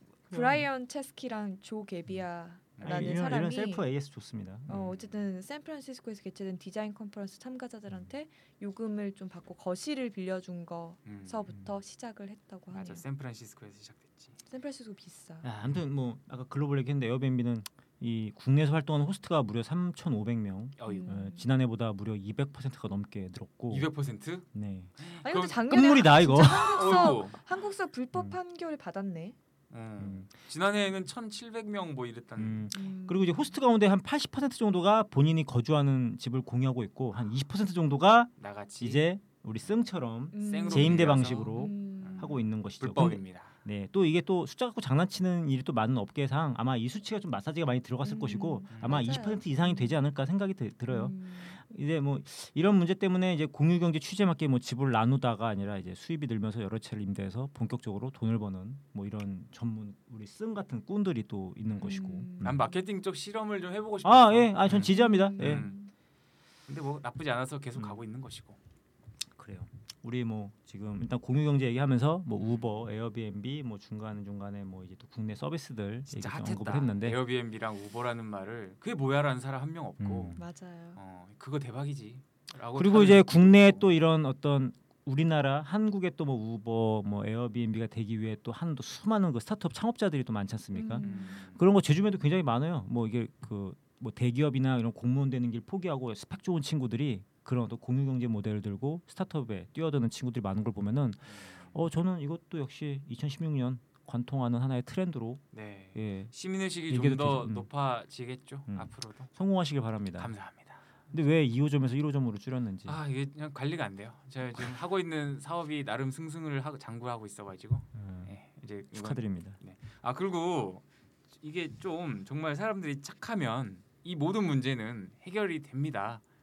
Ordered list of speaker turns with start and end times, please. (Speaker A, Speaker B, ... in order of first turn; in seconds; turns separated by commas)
Speaker A: 0.3-3.8, Speaker B: 0.3-0.7, Speaker C: 2.8-3.2, Speaker B: 2.8-4.9, Speaker A: 4.7-13.0, Speaker C: 4.7-5.1, Speaker C: 11.1-11.4, Speaker C: 12.7-14.4, Speaker A: 14.5-15.5, Speaker B: 15.4-23.9, Speaker C: 20.8-21.2, Speaker A: 20.9-21.5, Speaker C: 23.7-24.5, Speaker B: 24.5-24.9, Speaker C: 25.0-27.4, Speaker A: 25.2-29.3, Speaker B: 25.7-27.1, Speaker C: 29.7-32.7, Speaker B: 30.0-30.3, Speaker B: 32.4-62.6, Speaker A: 32.7-33.5, Speaker C: 38.4-39.0, Speaker A: 40.3-42.4, Speaker C: 40.3-43.5, Speaker A: 48.0-50.0, Speaker C: 48.7-49.1, Speaker A: 50.9-51.6, Speaker A: 61.8-62.7, Speaker C: 61.9-65.8, Speaker B: 64.0-65.7, Speaker A: 64.8-65.9, Speaker C: 66.7-68.6, Speaker B: 69.4-77.2, Speaker C: 72.4-72.7, Speaker C: 76.1-80.4, Speaker B: 80.0-80.4, Speaker A: 80.3-81.0, Speaker C: 81.0-83.9, Speaker B: 82.7-105.4, Speaker A: 90.7-91.4, Speaker C: 91.0-91.6, Speaker C: 101.3-101.7, Speaker C: 105.5-109.3, Speaker B: 105.9-106.3, Speaker B: 106.9-107.7, Speaker B: 108.7-110.3, Speaker C: 110.2-110.8, Speaker B: 111.1-113.0, Speaker C: 112.9-120.8, Speaker B: 117.9-118.3, Speaker B: 118.9-119.6, Speaker C: 121.4-126.2